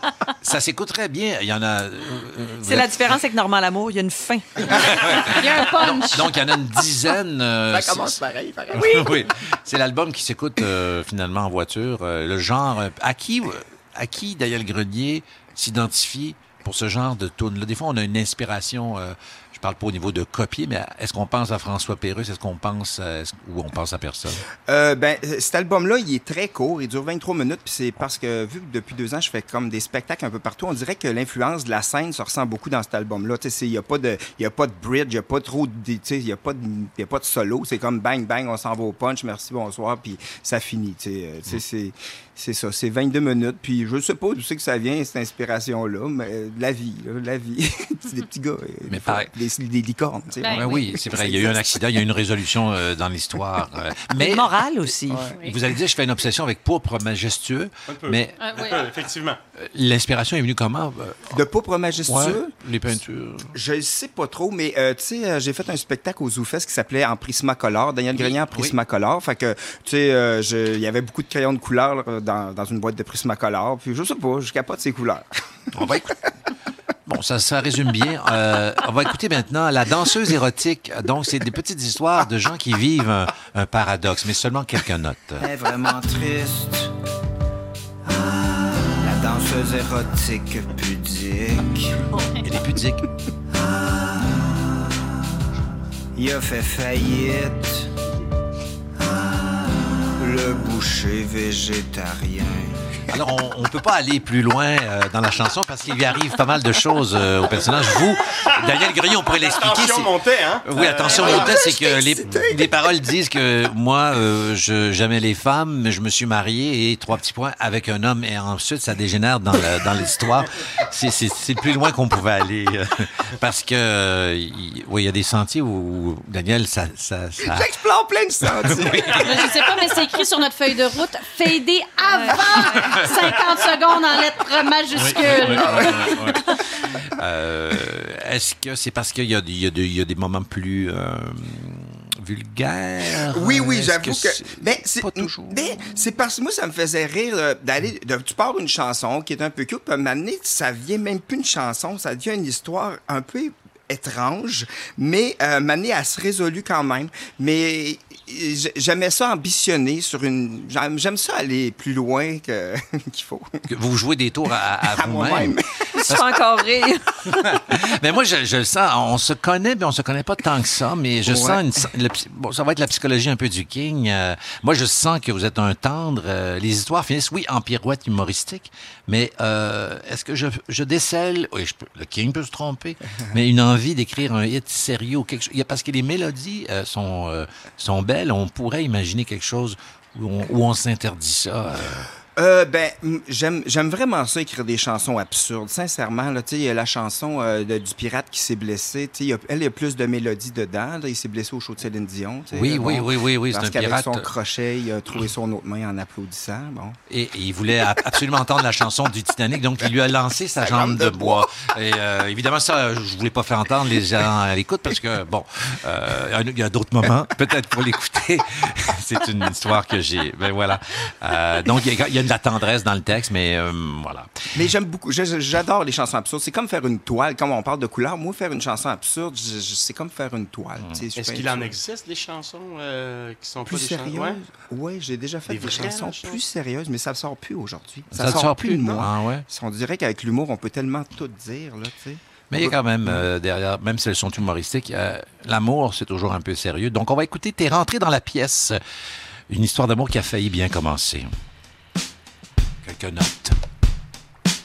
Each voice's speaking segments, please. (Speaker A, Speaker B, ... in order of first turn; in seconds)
Speaker A: 0.4-3.0, 4.7-8.2, 8.7-24.4, 48.9-49.3, 50.4-54.5, 55.4-58.4, 59.6-61.4, 62.1-63.5, 68.1-68.8, 75.7-76.2, 77.1-85.5, 92.4-93.1, 103.1-110.1, 110.6-127.7, 128.6-129.3, 132.7-133.1, 134.9-136.5, 137.1-145.9, 163.7-166.4, 167.2-192.1, 202.5-204.3, 207.1-224.3, 238.1-239.5, 242.5-248.8, 249.5-251.3, 252.8-253.6
Speaker B: 2.6-5.0, 54.1-55.4, 165.9-167.6
Speaker C: 5.3-6.3, 50.4-50.8, 58.4-58.8, 92.1-92.4, 129.1-136.5
Speaker D: 7.7-9.1, 24.7-51.8, 61.3-62.5, 63.5-75.3, 127.4-129.5, 135.5-136.2, 143.3-163.6, 164.9-165.7, 171.2-171.7, 192.4-207.0, 210.6-211.6, 224.5-231.8, 233.7-243.3
Speaker E: 57.9-59.4, 109.4-111.5, 231.2-234.4, 235.5-236.4
Speaker F: 85.4-86.9, 88.1-92.0, 93.6-95.0, 96.2-97.9, 99.0-102.8, 111.1-112.7